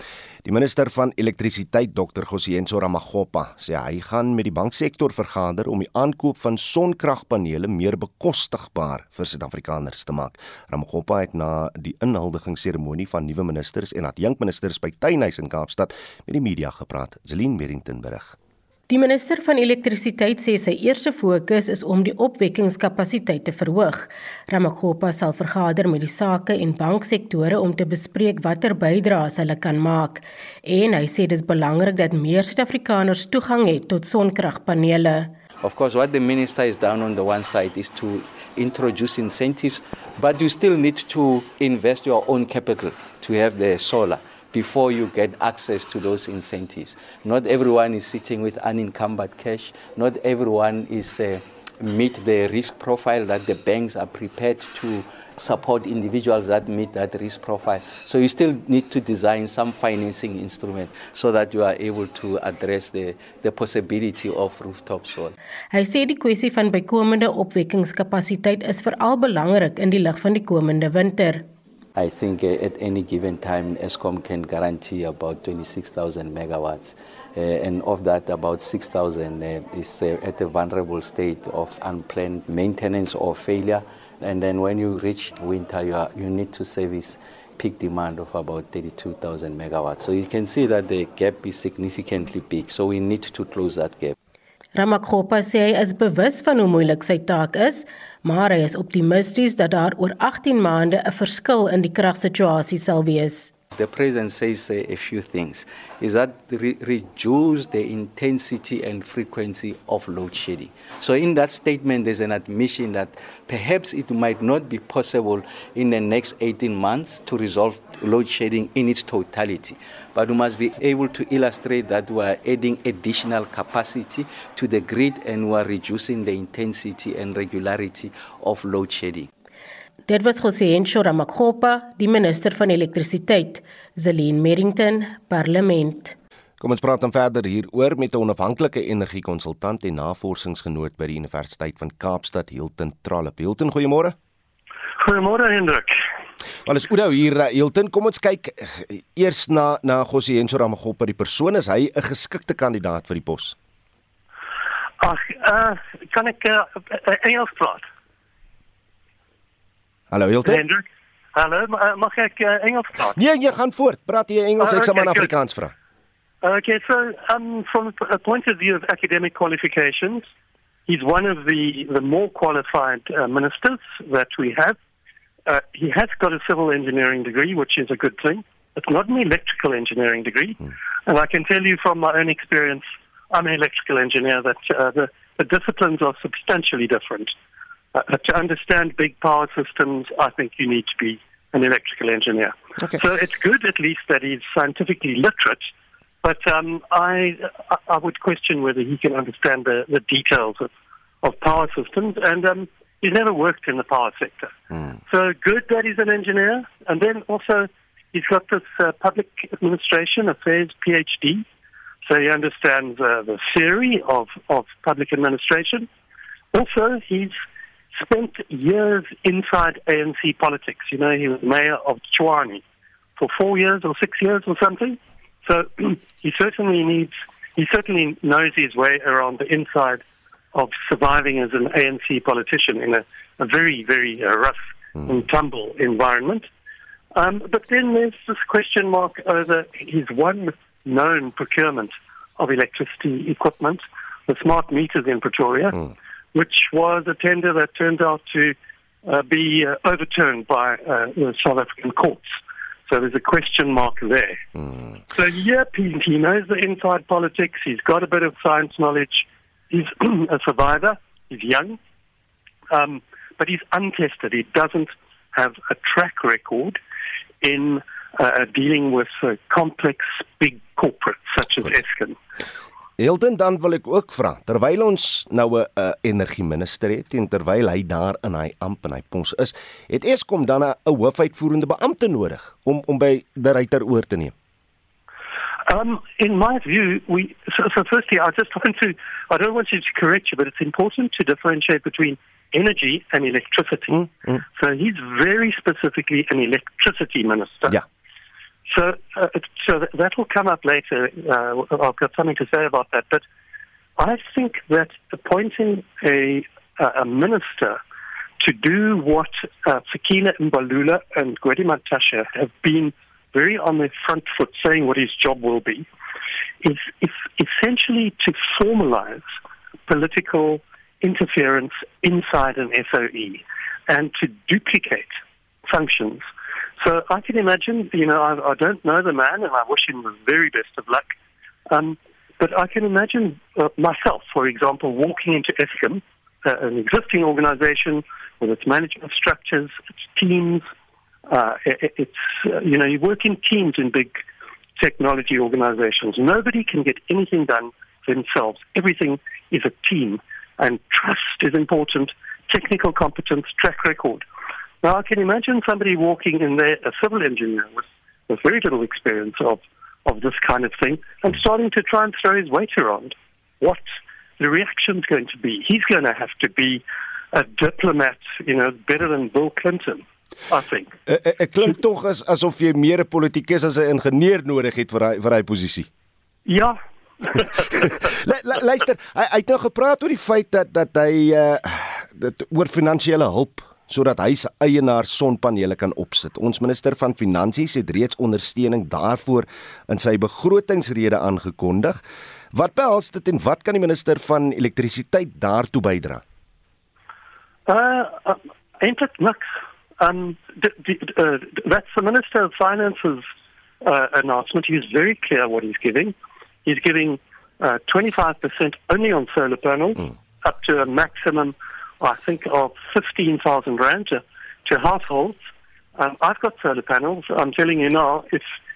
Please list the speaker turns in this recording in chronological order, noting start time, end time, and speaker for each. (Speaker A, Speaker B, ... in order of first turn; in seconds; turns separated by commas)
Speaker A: 0.5-18.4, Speaker B: 18.9-35.3, Speaker C: 35.6-65.4, Speaker B: 65.7-71.5, Speaker C: 72.0-94.2, Speaker B: 94.8-103.5, Speaker C: 103.8-129.3, Speaker B: 130.1-136.1, Speaker A: 136.6-144.2, Speaker D: 145.0-145.9, Speaker A: 146.7-153.6, Speaker D: 155.0-157.8, Speaker A: 160.1-160.6, Speaker D: 160.4-160.8, Speaker D: 161.3-163.2, Speaker A: 163.2-165.7, Speaker D: 164.6-165.3, Speaker D: 166.4-170.3, Speaker D: 170.9-174.8, Speaker D: 175.5-187.3, Speaker D: 187.9-195.6, Speaker D: 196.2-200.7, Speaker D: 201.2-204.5, Speaker D: 205.1-211.4, Speaker D: 212.1-215.9, Speaker D: 216.5-217.4, Speaker D: 217.9-222.6, Speaker D: 223.2-230.0, Speaker D: 230.5-236.5, Speaker D: 237.1-245.8, Speaker D: 246.3-252.2, Speaker D: 252.9-254.4, Speaker D: 255.1-261.8, Speaker D: 262.7-266.8, Speaker D: 267.4-272.2, Speaker A: 273.0-284.3, Speaker D: 285.7-294.0, Speaker A: 293.9-294.4, Speaker D: 294.6-297.8, Speaker D: 298.7-303.2, Speaker D: 304.0-307.8, Speaker D: 308.4-315.9, Speaker D: 316.6-319.3, Speaker D: 319.9-325.1, Speaker D: 325.7-326.2, Speaker D: 326.8-331.1, Speaker D: 331.7-340.6, Speaker D: 341.3-344.2, Speaker D: 344.8-354.2, Speaker D: 354.8-363.8, Speaker D: 364.4-370.9, Speaker A: 371.1-375.9, Speaker D: 376.5-377.9, Speaker A: 377.8-392.0, Speaker A: 392.5-396.2, Speaker D: 397.7-399.5, Speaker D: 400.0-403.2, Speaker D: 403.8-406.1, Speaker D: 406.6-415.4, Speaker D: 416.0-418.5